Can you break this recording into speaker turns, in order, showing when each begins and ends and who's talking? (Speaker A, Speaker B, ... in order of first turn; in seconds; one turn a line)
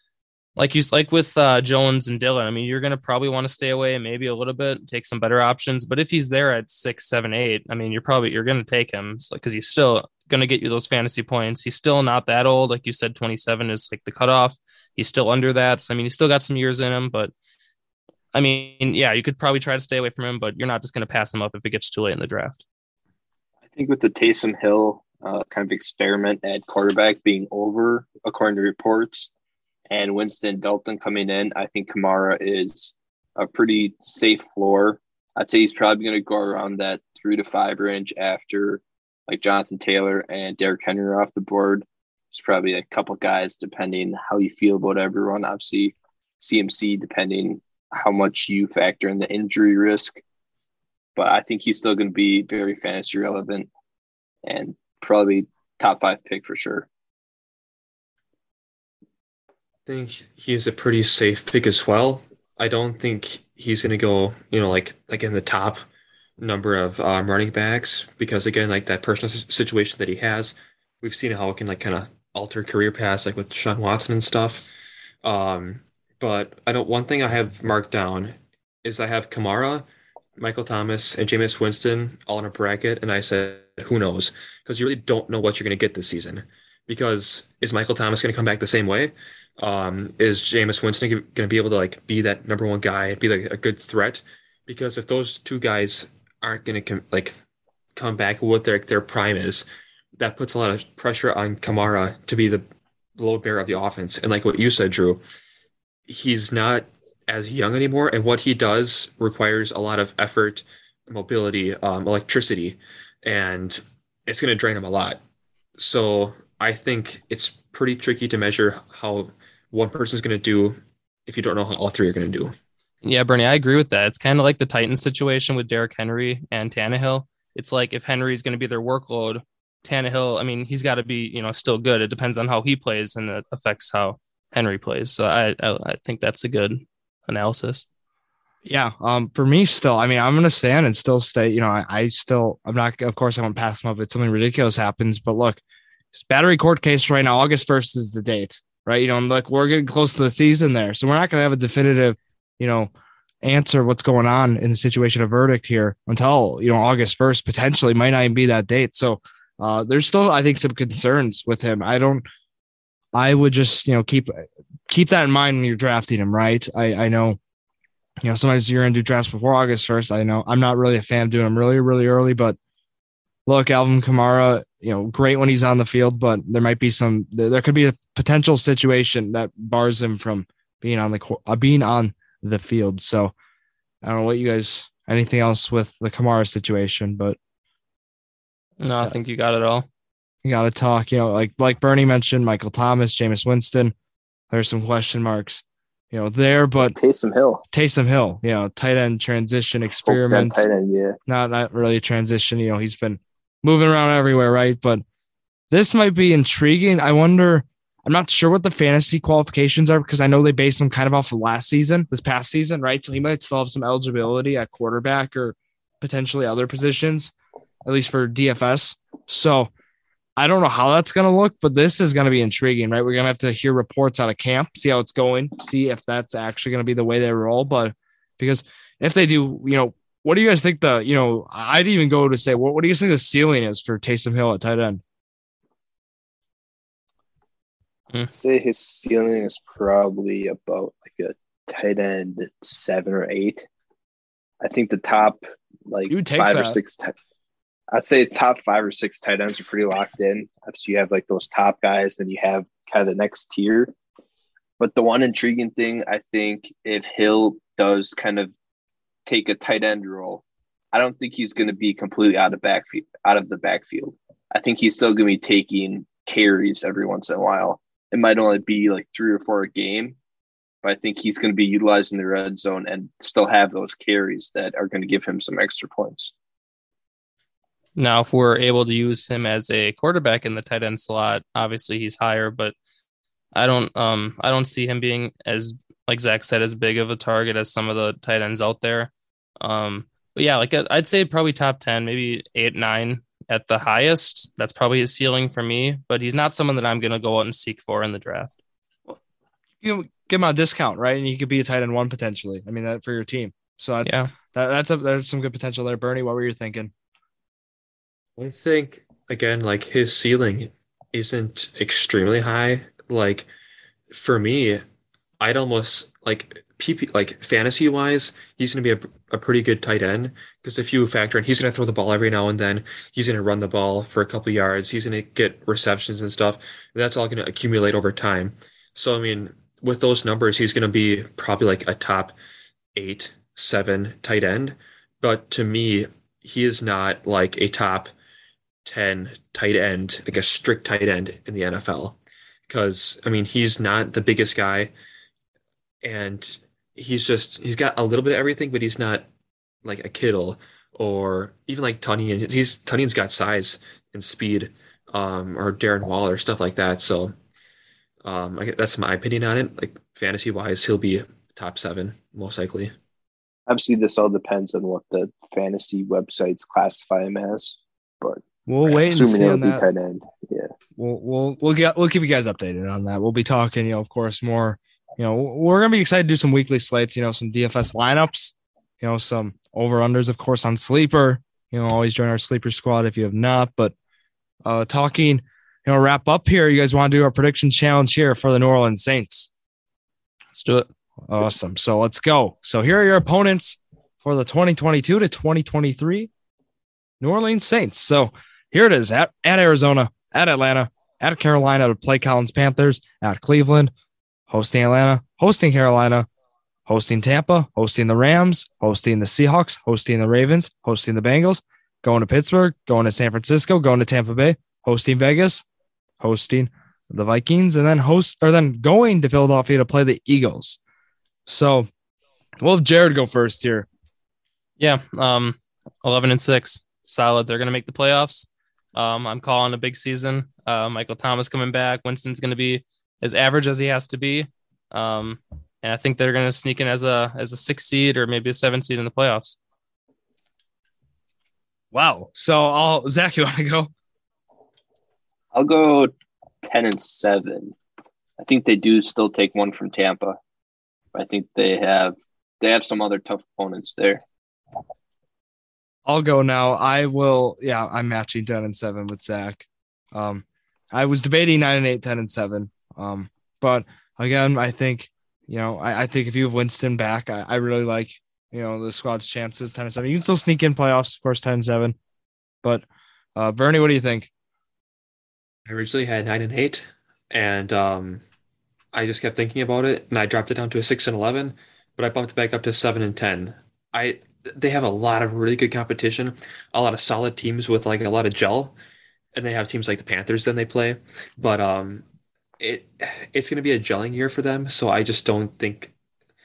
Speaker A: 0.6-17.3
Speaker A: 18.3-22.6
Speaker B: 23.7-29.3
Speaker B: 29.9-50.2
Speaker B: 51.1-53.7
Speaker B: 54.4-56.9
Speaker C: 59.9-65.8
Speaker C: 66.4-74.7
Speaker C: 75.2-79.8
Speaker C: 80.4-97.3
Speaker C: 97.9-99.6
Speaker C: 100.2-102.6
Speaker C: 103.2-105.2
Speaker C: 106.1-115.2
Speaker C: 115.8-122.5
Speaker A: 123.0-137.8
Speaker D: 138.7-145.6
Speaker D: 146.1-152.9
Speaker D: 153.4-162.2
Speaker D: 163.1-167.4
Speaker D: 168.2-172.6
Speaker D: 173.4-183.3
Speaker D: 184.0-187.4
Speaker A: 188.8-189.9
Speaker D: 190.4-193.9
Speaker D: 194.5-196.9
Speaker B: 196.8-197.6
Speaker D: 197.7-200.6
Speaker B: 200.1-201.2
Speaker D: 201.3-205.0
Speaker D: 205.7-217.3
Speaker D: 217.8-219.7
Speaker D: 220.4-235.0
Speaker B: 238.3-243.7
Speaker B: 244.6-247.1
Speaker D: 246.1-246.8
Speaker B: 247.9-253.9
Speaker B: 254.8-258.5
Speaker B: 259.2-270.2
Speaker B: 270.8-276.3
Speaker A: 277.9-282.7
Speaker A: 283.5-298.5
Speaker D: 299.8-306.9
Speaker C: 308.4-313.5
Speaker C: 314.1-314.8
Speaker C: 315.4-332.3
Speaker C: 332.9-338.1
Speaker C: 338.8-342.2
Speaker C: 342.7-344.9
Speaker C: 346.0-349.3
Speaker C: 349.8-357.3
Speaker C: 358.2-362.9
Speaker B: 363.7-370.7
Speaker D: 368.7-369.8
Speaker D: 371.0-383.9
Speaker D: 384.6-389.5
Speaker A: 390.5-390.9
Speaker D: 391.3-396.3
Speaker D: 397.2-403.9
Speaker D: 404.5-406.3
Speaker D: 406.9-415.6
Speaker D: 416.2-420.8
Speaker D: 421.5-421.9
Speaker D: 422.6-423.9
Speaker A: 424.8-439.6
Speaker D: 441.9-443.9
Speaker B: 445.5-446.1
Speaker B: 446.6-447.8
Speaker B: 448.4-450.4
Speaker B: 451.1-454.2
Speaker D: 456.1-471.9
Speaker D: 473.4-474.3
Speaker C: 475.6-478.2
Speaker C: 478.9-488.7
Speaker C: 489.3-492.0
Speaker C: 492.6-495.9